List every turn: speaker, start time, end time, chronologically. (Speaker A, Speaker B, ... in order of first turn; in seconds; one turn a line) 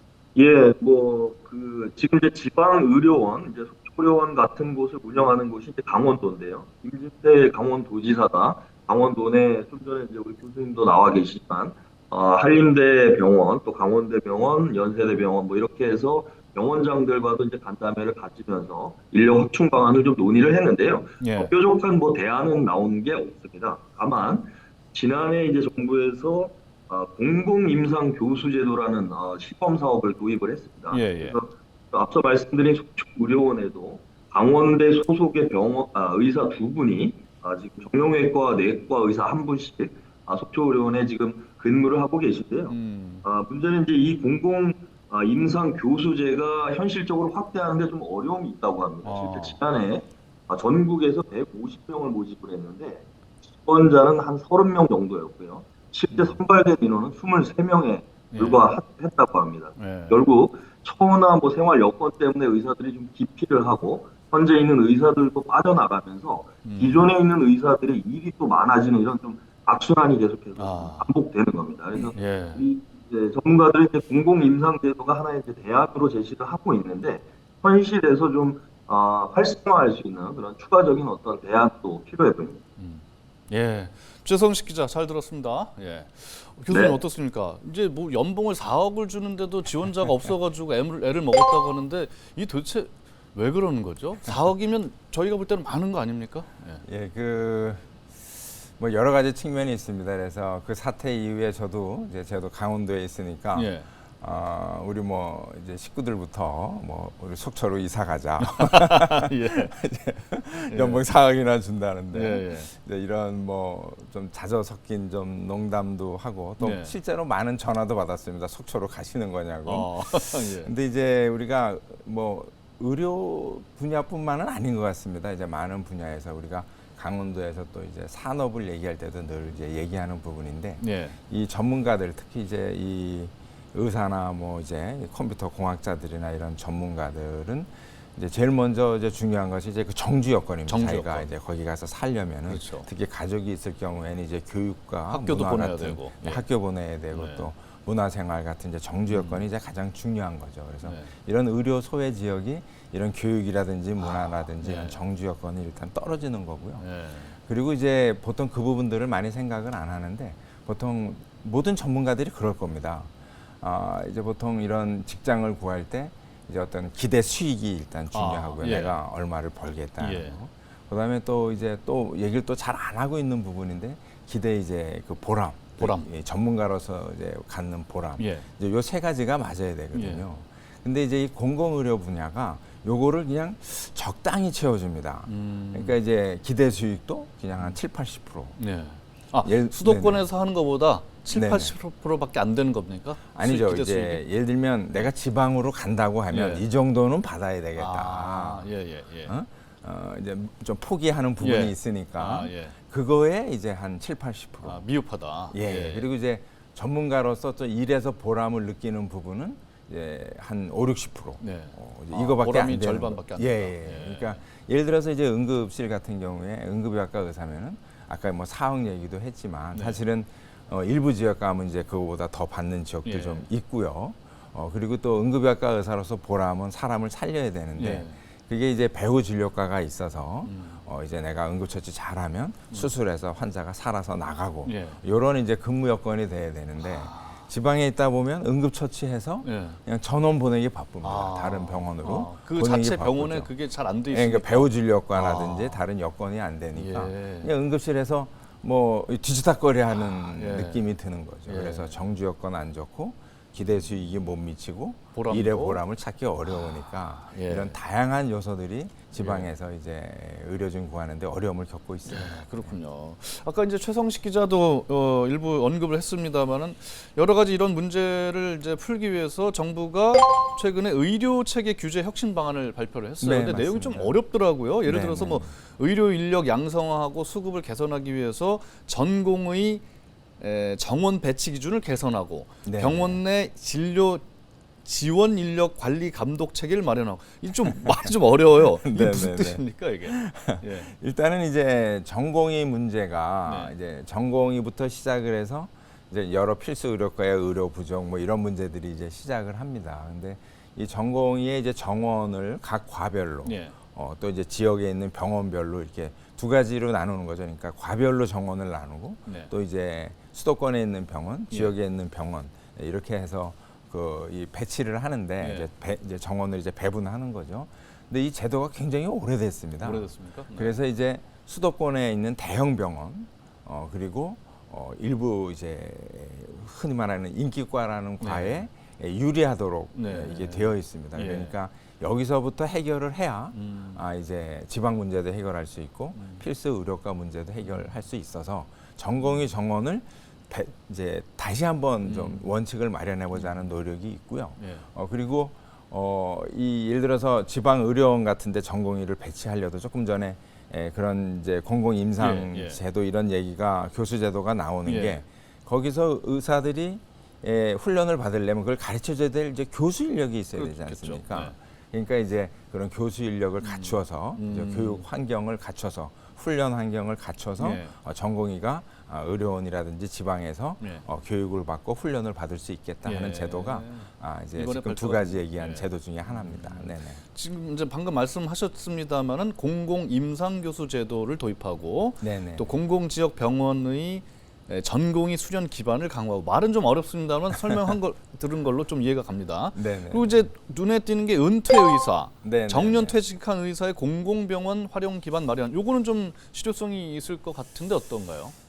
Speaker A: 0.3-82.6
Speaker B: 21.2-21.5
Speaker B: 30.9-31.4
Speaker B: 42.7-43.3
Speaker B: 49.0-49.6
Speaker B: 56.1-56.4
Speaker B: 58.3-58.6
Speaker B: 59.8-60.2
Speaker B: 66.7-67.1
Speaker B: 70.6-71.1
Speaker B: 71.9-72.6
Speaker B: 82.8-96.9
Speaker A: 86.7-87.0
Speaker C: 96.8-156.8
Speaker B: 103.5-103.9
Speaker B: 108.4-109.8
Speaker B: 110.7-111.0
Speaker B: 112.1-112.7
Speaker B: 116.6-117.0
Speaker B: 119.7-120.7
Speaker B: 130.8-131.2
Speaker B: 140.7-141.3
Speaker B: 142.5-142.9
Speaker B: 145.1-146.4
Speaker B: 147.1-147.5
Speaker B: 149.1-149.4
Speaker B: 150.8-151.1
Speaker B: 154.0-155.0
Speaker B: 156.8-157.4
Speaker C: 157.4-188.6
Speaker B: 168.1-168.9
Speaker B: 170.0-170.4
Speaker B: 175.8-176.1
Speaker B: 178.2-178.5
Speaker B: 179.9-180.2
Speaker B: 185.3-186.0
Speaker B: 188.6-194.2
Speaker C: 189.4-190.3
Speaker C: 191.3-191.7
Speaker C: 193.3-198.7
Speaker B: 196.3-196.7
Speaker B: 197.8-199.3
Speaker C: 199.3-204.9
Speaker B: 201.4-202.8
Speaker B: 204.6-206.1
Speaker C: 205.5-243.5
Speaker B: 211.4-214.4
Speaker B: 219.7-220.0
Speaker B: 223.1-223.5
Speaker B: 227.8-228.2
Speaker B: 230.4-230.8
Speaker B: 234.7-235.0
Speaker B: 236.8-237.5
Speaker B: 239.4-239.8
Speaker B: 241.0-245.8
Speaker C: 244.1-262.8
Speaker B: 246.8-247.5
Speaker B: 249.9-250.9
Speaker B: 251.5-252.0
Speaker B: 255.2-255.8
Speaker B: 256.4-257.8
Speaker B: 259.1-259.5
Speaker B: 262.1-279.8
Speaker C: 273.2-274.2
Speaker C: 274.9-275.5
Speaker B: 280.4-284.2
Speaker C: 282.6-283.2
Speaker B: 284.8-290.9
Speaker C: 287.7-377.2
Speaker B: 293.5-293.7
Speaker B: 303.4-303.8
Speaker B: 309.3-309.5
Speaker B: 315.4-315.7
Speaker B: 319.8-320.8
Speaker B: 328.2-328.7
Speaker B: 329.9-331.6
Speaker B: 333.5-334.0
Speaker B: 336.1-336.5
Speaker B: 339.2-339.5
Speaker B: 342.0-342.4
Speaker B: 344.6-344.9
Speaker B: 352.2-352.8
Speaker B: 354.9-355.2
Speaker B: 360.6-361.6
Speaker B: 363.6-365.1
Speaker B: 367.6-367.9
Speaker B: 370.8-371.1
Speaker B: 373.0-398.6
Speaker C: 382.2-382.7
Speaker C: 389.7-390.5
Speaker C: 392.4-393.2